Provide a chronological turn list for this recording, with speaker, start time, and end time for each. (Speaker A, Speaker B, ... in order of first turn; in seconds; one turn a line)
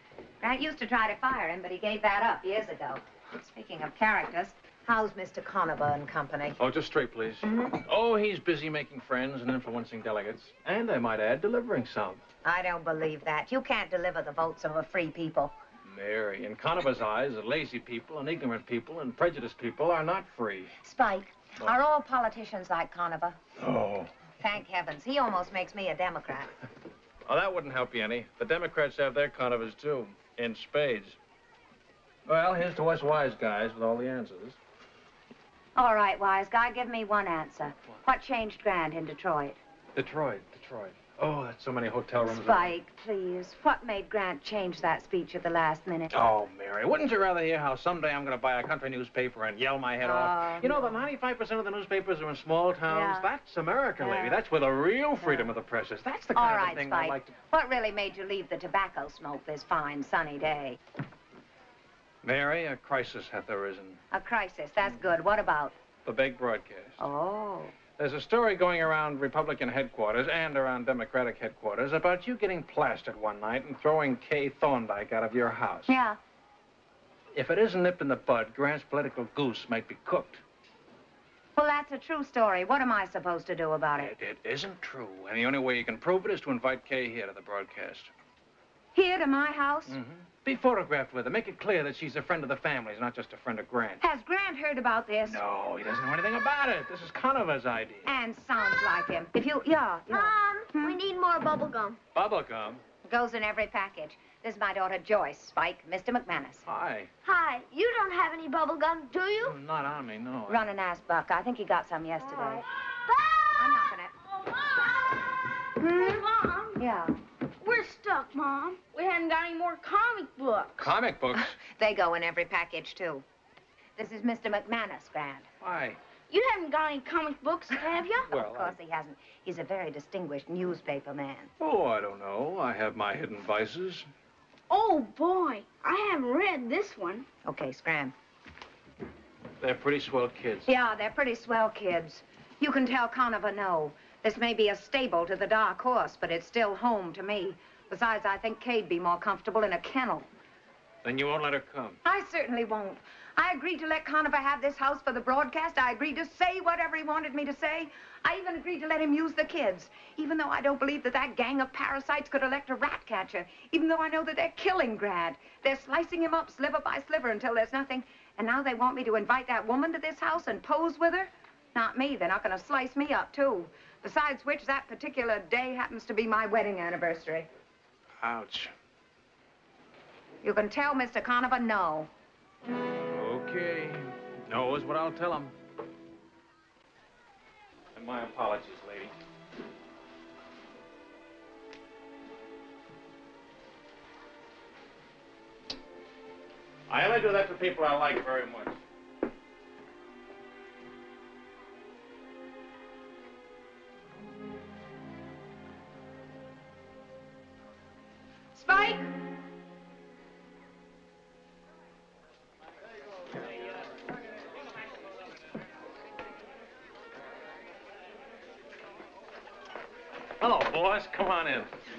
Speaker A: 0.4-6.6
Speaker B: 6.6-12.2
Speaker A: 12.4-15.5
Speaker B: 15.9-20.7
Speaker A: 20.8-23.4
Speaker B: 23.6-24.1
Speaker A: 24.4-26.5
Speaker B: 27.2-31.2
Speaker B: 32.2-34.5
Speaker A: 35.7-39.6
Speaker B: 39.9-42.7
Speaker A: 42.1-46.2
Speaker B: 46.1-57.4
Speaker A: 50.0-51.0
Speaker A: 52.9-53.3
Speaker A: 54.0-54.4
Speaker A: 55.2-55.5
Speaker A: 56.3-60.8
Speaker B: 62.2-64.0
Speaker A: 64.1-65.8
Speaker B: 66.0-67.0
Speaker A: 67.0-67.7
Speaker B: 68.0-75.9
Speaker A: 75.9-76.2
Speaker B: 77.3-80.4
Speaker A: 81.5-84.1
Speaker B: 84.0-88.1
Speaker A: 88.9-90.0
Speaker B: 89.8-94.0
Speaker A: 94.0-95.4
Speaker B: 95.2-98.1
Speaker A: 98.0-101.0
Speaker C: 98.6-98.8
Speaker C: 100.1-102.0
Speaker B: 102.1-102.8
Speaker A: 103.0-106.6
Speaker B: 106.7-107.1
Speaker C: 107.2-109.6
Speaker B: 109.4-110.6
Speaker A: 110.5-112.6
Speaker C: 112.2-115.2
Speaker A: 113.5-114.1
Speaker A: 115.8-117.2
Speaker C: 115.8-116.8
Speaker C: 117.6-120.9
Speaker B: 120.8-121.5
Speaker A: 121.6-123.2
Speaker A: 124.0-125.5
Speaker B: 125.6-126.0
Speaker C: 126.3-128.3
Speaker B: 128.2-128.8
Speaker A: 128.3-131.5
Speaker B: 131.6-134.1
Speaker C: 134.7-137.2
Speaker A: 137.4-138.1
Speaker B: 139.6-140.7
Speaker A: 140.7-150.3
Speaker B: 151.0-152.0
Speaker A: 152.0-177.5
Speaker B: 178.2-178.7
Speaker A: 180.4-182.1
Speaker B: 183.1-185.5
Speaker B: 187.9-189.1
Speaker B: 196.9-198.7
Speaker A: 208.7-209.0
Speaker B: 220.4-221.7